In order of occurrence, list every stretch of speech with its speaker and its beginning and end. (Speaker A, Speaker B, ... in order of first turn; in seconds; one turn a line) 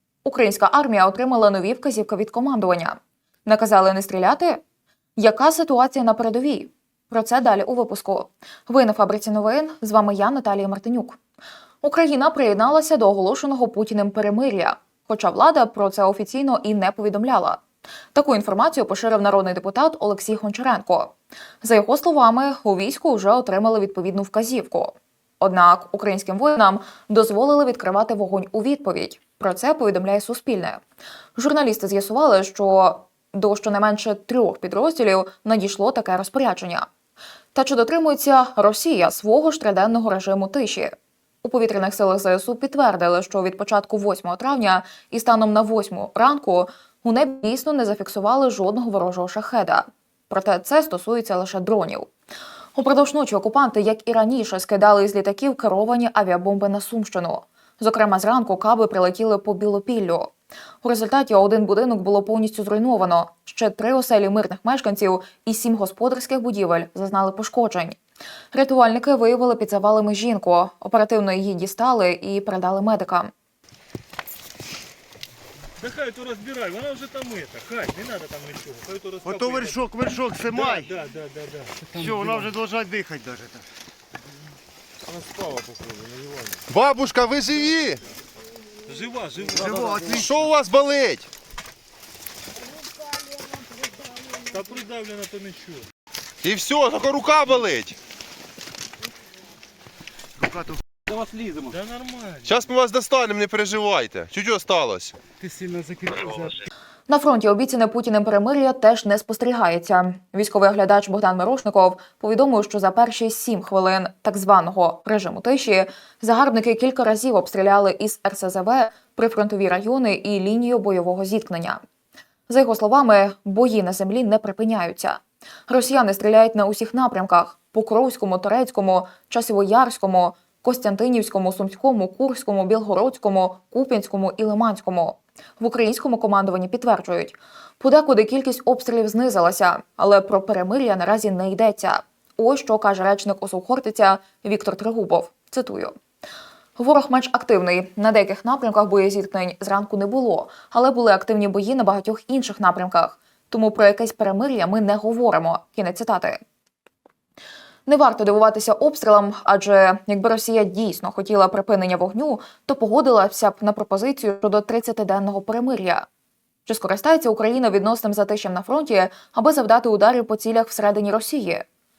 Speaker A: 0.2-4.6
Speaker A: 5.2-11.2
Speaker A: 11.8-17.6
Speaker A: 18.1-30.8
Speaker A: 31.4-36.9
Speaker A: 37.5-52.1
Speaker A: 52.7-68.0
Speaker A: 68.5-73.3
Speaker B: 75.8-82.5
Speaker C: 79.2-80.9
Speaker C: 81.9-83.7
Speaker D: 86.7-88.0
Speaker B: 88.9-90.5
Speaker C: 89.5-90.5
Speaker D: 90.2-91.3
Speaker B: 94.5-95.8
Speaker D: 96.4-98.0
Speaker C: 100.4-100.8
Speaker B: 101.5-102.7
Speaker D: 102.4-105.2
Speaker B: 105.4-106.6
Speaker A: 107.1-121.8
Speaker A: 122.5-145.9
Speaker A: 146.8-156.4
Speaker A: 157.8-166.1
Speaker A: 166.7-171.7